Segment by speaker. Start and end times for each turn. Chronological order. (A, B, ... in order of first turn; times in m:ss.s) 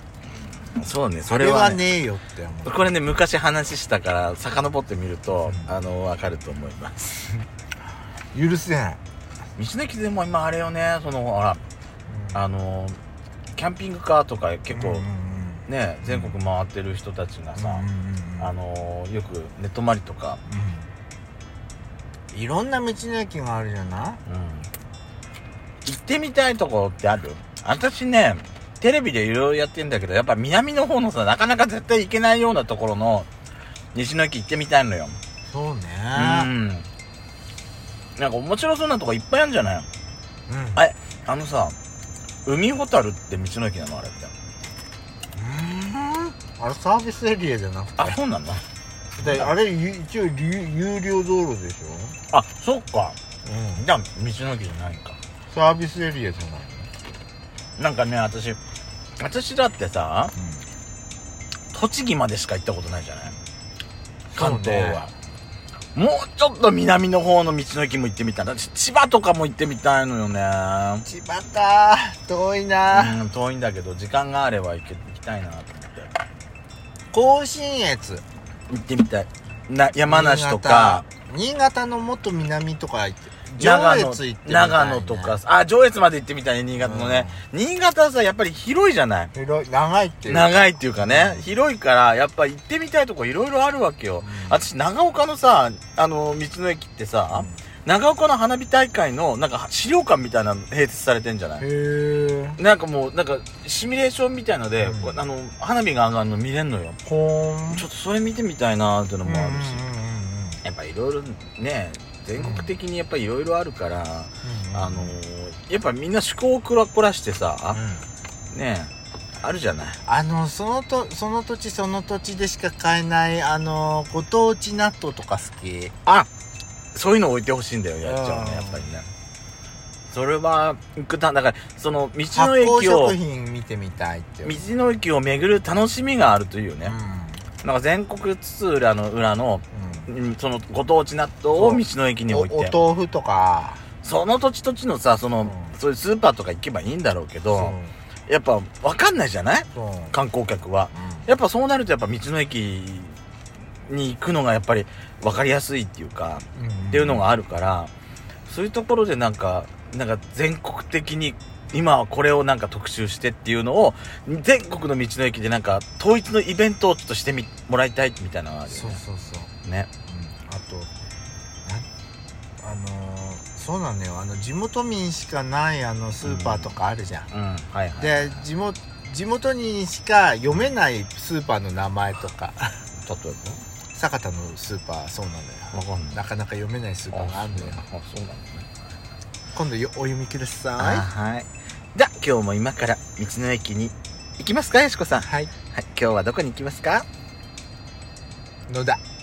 0:00.7-0:01.9 A
0:01.3-0:03.0 B
0:02.6-0:07.2 A
0:05.4-0:05.7 B
0:08.3-0:09.0 B
0:09.6-0:11.6 A
0:12.1-0:12.4 B
0:12.3-0:13.0 A
0:13.6-0:15.0 A
0:14.7-0:16.4 B
0:15.6-0:17.8 A
0:17.6-0:18.5 B
0:18.4-0:20.4 A
0:20.5-0:20.9 B
0:22.3-0:24.2 B
0:24.2-0:24.7 A
0:25.8-0:33.3 A
0:33.9-0:35.2 A
0:35.5-0:36.5 B
0:36.1-0:36.9 A
0:38.2-0:39.9 A
0:40.5-0:40.8 B
0:40.8-0:41.8 A
0:42.4-0:44.3 A
0:45.3-0:48.2 B
0:48.0-0:48.6 A
0:49.2-0:49.5 A
0:49.2-0:52.2 B
0:52.3-0:53.2 A
0:53.4-0:53.8 B
0:53.8-0:55.2 A
0:55.5-0:56.9 B
0:57.8-0:58.6 A
0:59.2-1:00.3 A
1:00.4-1:00.6 B
1:01.7-1:03.4 A
1:04.3-1:05.1 B
1:04.3-1:05.1 A
1:05.9-1:11.0 A
1:11.0-1:13.2 B
1:12.9-1:16.1 A
1:17.1-1:18.2 B
1:18.7-1:21.0 A
1:20.0-1:25.4 B
1:23.6-1:29.3 A
1:26.8-1:27.4 B
1:29.3-1:31.4 B
1:30.3-1:41.6 A
1:34.2-1:34.7 B
1:37.3-1:37.6 B
1:41.6-1:42.6 B
1:42.6-1:47.0 A
1:44.8-1:45.2 B
1:47.0-1:47.8 B
1:47.7-1:49.9 A
1:49.2-1:50.6 B
1:50.6-1:57.8 A
1:52.4-1:52.7 B
1:54.4-1:55.2 B
1:57.7-1:58.0 B
1:58.5-2:00.0 A
2:00.0-2:05.9 B
2:06.9-2:09.1 A
2:08.0-2:08.8 B
2:10.1-2:13.2 A
2:12.3-2:14.6 B
2:14.4-2:16.9 A
2:16.8-2:17.4 B
2:17.6-2:22.8 A
2:19.7-2:20.1 B
2:21.5-2:23.8 B
2:24.0-2:27.8 A
2:25.4-2:25.8 B
2:27.5-2:27.9 B
2:28.3-2:33.2 A
2:29.7-2:30.2 B
2:30.9-2:31.3 B
2:33.8-2:37.9 A
2:36.5-2:37.3 B
2:38.5-2:49.0 A
2:48.7-2:49.5 B
2:49.6-2:49.9 A
2:50.1-2:50.9 B
2:52.6-2:57.3 B
2:56.2-2:56.7 A
2:57.3-2:58.4 A
2:58.0-3:02.8 B
3:03.0-3:03.6 A
3:03.9-3:07.8 B
3:05.7-3:06.2 A
3:07.1-3:08.7 A
3:09.5-3:11.0 B
3:10.8-3:17.0 A
3:15.2-3:15.5 B
3:18.7-3:19.0 B